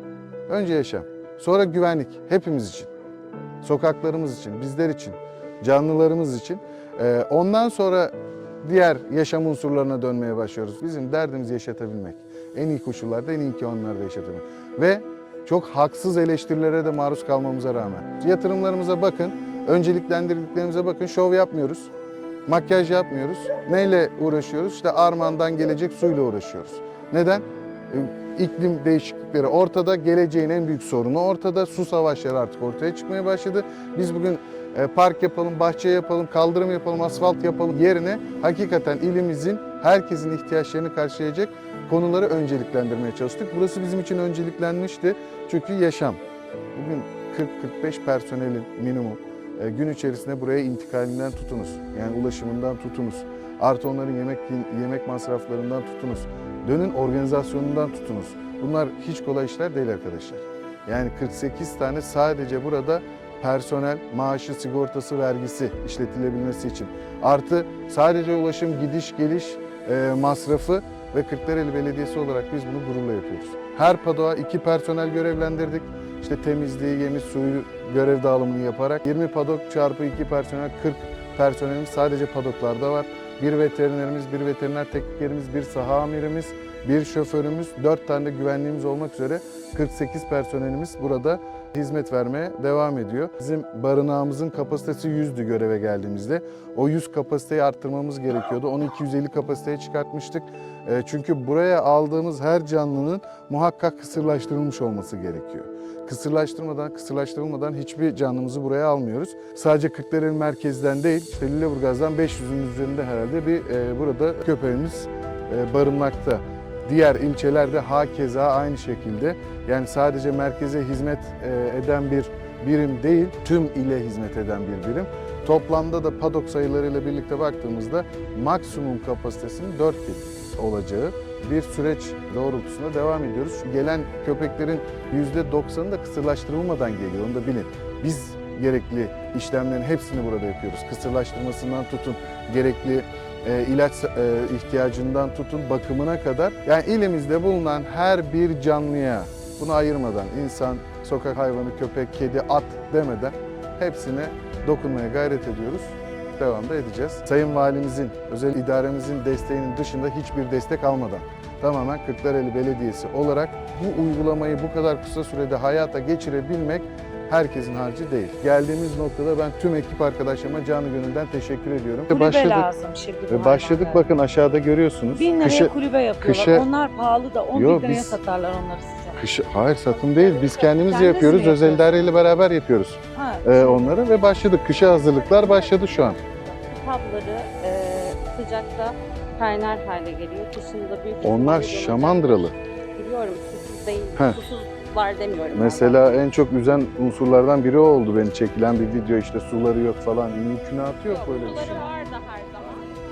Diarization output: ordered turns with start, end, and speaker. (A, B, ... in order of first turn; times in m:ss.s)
0:00.5-0:02.9 A
0:03.6-0:21.9 A
0:22.5-0:46.2 A
0:46.7-2:52.7 A
2:52.1-2:54.0 B
2:53.3-2:56.6 A
2:55.1-2:59.2 B
2:57.5-2:58.2 A
2:59.2-3:06.2 A
3:00.1-3:00.6 C
3:00.9-3:01.8 B
3:03.1-3:04.0 B
3:05.3-3:06.1 B
3:06.7-3:16.2 C
3:11.2-3:12.5 A
3:15.5-3:21.9 A
3:21.1-3:23.0 C